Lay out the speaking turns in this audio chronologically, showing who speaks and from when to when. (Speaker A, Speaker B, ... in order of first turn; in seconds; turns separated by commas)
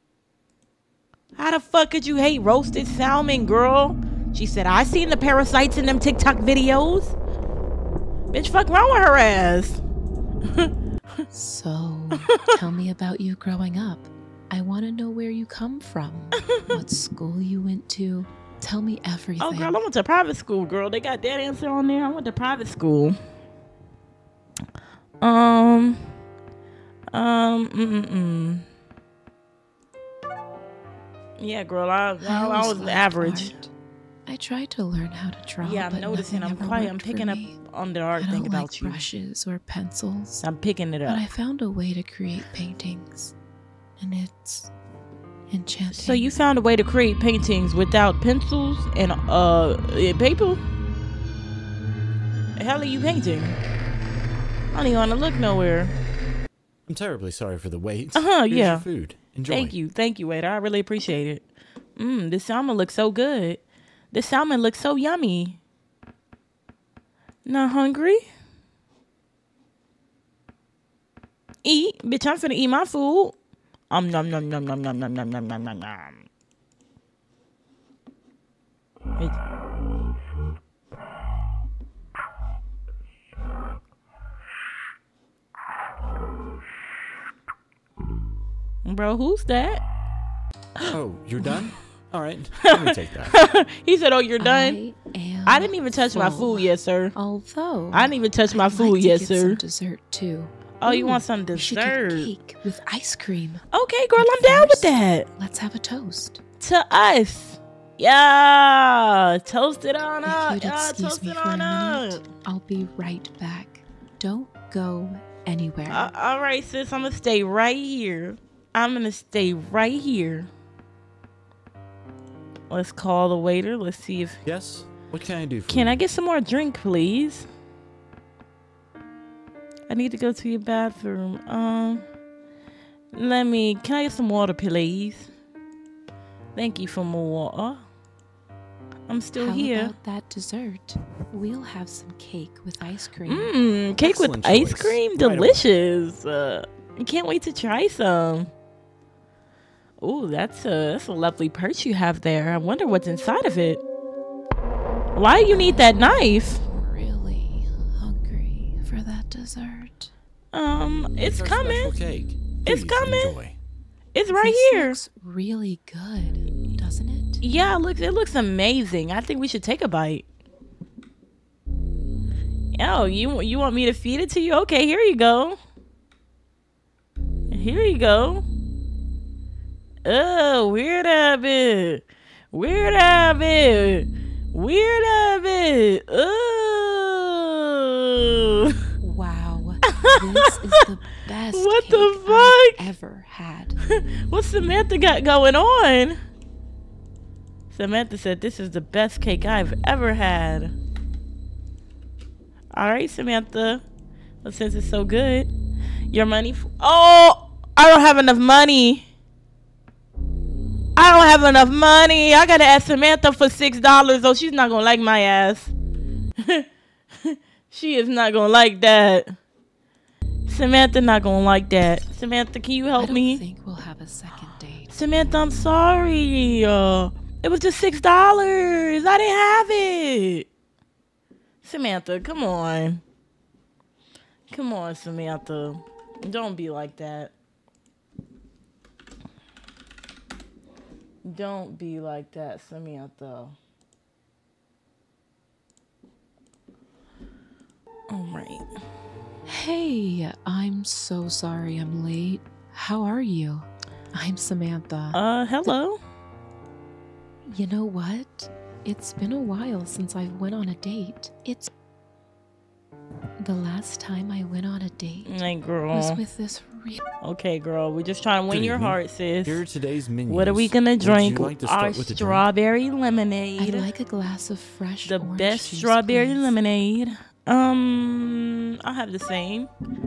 Speaker A: 1.4-7.2, Speaker A: 8.3-9.8, Speaker B: 11.3-19.8, Speaker A: 12.2-12.5, Speaker A: 19.4-23.2, Speaker A: 25.2-26.1, Speaker A: 27.1-28.6, Speaker A: 31.4-33.5, Speaker B: 32.2-33.7, Speaker B: 34.3-37.6, Speaker A: 35.6-39.0, Speaker B: 38.2-40.4, Speaker A: 40.4-41.2, Speaker B: 41.1-43.3, Speaker B: 44.0-44.7, Speaker B: 45.5-46.3, Speaker A: 45.9-50.6, Speaker A: 52.6-53.6, Speaker A: 54.7-56.0, Speaker C: 56.9-59.8, Speaker A: 58.1-58.9, Speaker A: 59.5-61.5, Speaker A: 62.0-65.6, Speaker A: 67.5-68.2, Speaker A: 71.6-73.4, Speaker A: 73.9-76.3, Speaker A: 88.8-89.8, Speaker C: 90.9-93.3, Speaker A: 92.6-94.8, Speaker B: 94.4-103.7, Speaker A: 95.5-97.2, Speaker A: 97.9-99.6, Speaker A: 100.8-102.3, Speaker A: 103.7-105.3, Speaker B: 104.2-106.4, Speaker A: 106.6-112.2, Speaker B: 110.2-116.1, Speaker A: 115.9-120.5, Speaker A: 122.7-124.4, Speaker C: 124.4-125.9, Speaker A: 125.7-127.5, Speaker A: 129.9-132.1, Speaker A: 133.1-135.3, Speaker A: 136.6-137.8, Speaker A: 139.1-139.9, Speaker B: 139.4-143.5, Speaker A: 143.3-148.5, Speaker C: 144.0-145.6, Speaker A: 150.0-153.8, Speaker A: 155.2-156.6, Speaker B: 155.5-155.9, Speaker B: 156.7-160.1, Speaker A: 160.5-161.9, Speaker C: 161.2-163.6, Speaker A: 162.7-163.3, Speaker A: 164.1-165.0, Speaker B: 164.3-167.4, Speaker A: 167.4-170.3, Speaker A: 172.8-175.6, Speaker A: 177.5-178.4, Speaker A: 180.1-188.8, Speaker B: 189.0-193.8, Speaker A: 189.9-190.8, Speaker A: 191.5-192.9, Speaker A: 193.9-196.2, Speaker A: 197.7-200.7, Speaker A: 202.7-203.8, Speaker A: 204.4-205.5, Speaker A: 206.1-209.1, Speaker A: 211.0-215.7, Speaker A: 216.4-216.7, Speaker A: 217.2-219.4, Speaker A: 220.5-223.4, Speaker B: 223.0-225.0, Speaker A: 224.9-230.5, Speaker A: 231.6-233.0, Speaker A: 234.5-237.3, Speaker A: 241.2-243.6, Speaker A: 248.1-248.7, Speaker B: 249.5-255.2, Speaker A: 255.1-256.0, Speaker B: 257.5-261.7, Speaker B: 263.4-265.4, Speaker A: 265.3-266.2, Speaker B: 265.9-267.0, Speaker A: 267.2-269.6, Speaker C: 268.5-272.4, Speaker A: 270.3-273.9, Speaker B: 273.6-276.5, Speaker A: 275.1-279.7